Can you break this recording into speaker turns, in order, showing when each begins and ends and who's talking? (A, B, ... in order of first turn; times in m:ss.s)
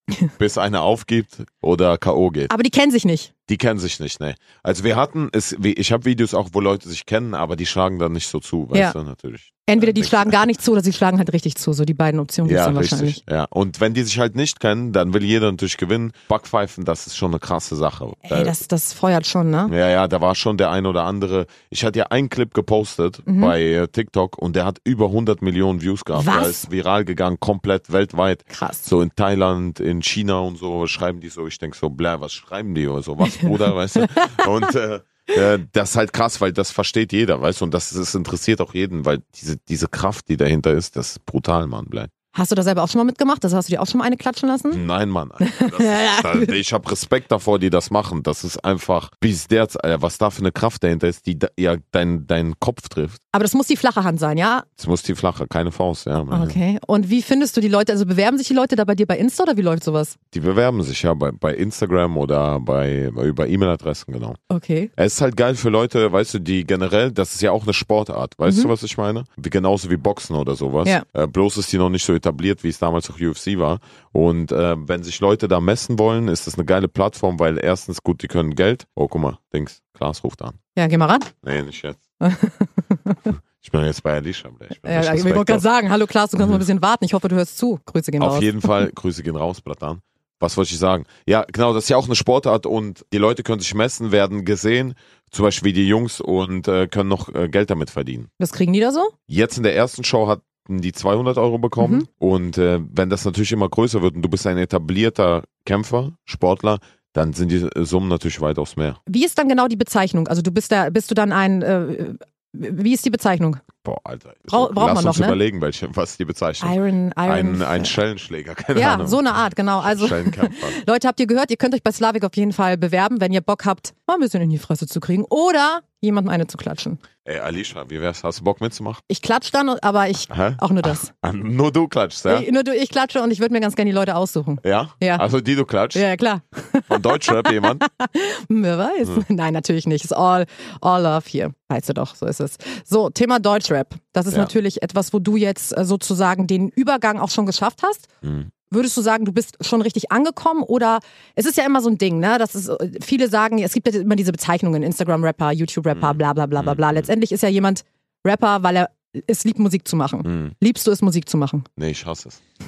0:00.4-0:02.5 A
0:02.5-0:03.3 B
0:03.5-0:10.4 A
0:09.7-0:13.2 B
0:12.4-0:18.6 A
0:18.3-0:19.7 B
0:19.7-0:42.1 A
0:23.3-0:23.5 B
0:26.2-0:26.7 B
0:28.5-0:28.9 B
0:33.3-0:34.4 B
0:42.3-0:44.8 B
0:44.7-0:53.2 A
0:45.4-0:46.5 B
0:53.3-0:54.7 B
0:54.8-0:56.6 A
0:56.3-1:00.2 B
1:00.3-1:04.4 A
1:04.5-1:04.9 B
1:05.0-1:20.6 A
1:08.4-1:08.7 B
1:20.8-1:21.3 B
1:21.4-1:22.0 A
1:22.2-1:23.2 B
1:23.6-1:25.6 A
1:24.8-1:28.9 B
1:28.2-1:38.3 A
1:38.4-1:39.1 B
1:39.3-1:49.0 A
1:41.8-1:42.1 B
1:49.1-1:53.6 B
1:53.8-1:59.2 A
1:54.5-1:55.4 B
1:56.6-1:58.0 B
1:58.7-2:07.0 B
1:59.8-2:00.8 A
2:07.2-2:09.0 A
2:09.1-2:11.1 B
2:10.3-2:12.5 A
2:12.3-2:15.2 B
2:14.6-2:16.0 A
2:15.9-2:28.1 B
2:16.9-2:17.8 A
2:28.2-2:28.5 A
2:28.7-2:41.7 B
2:35.9-2:37.1 A
2:40.2-2:40.6 A
2:41.8-2:42.4 A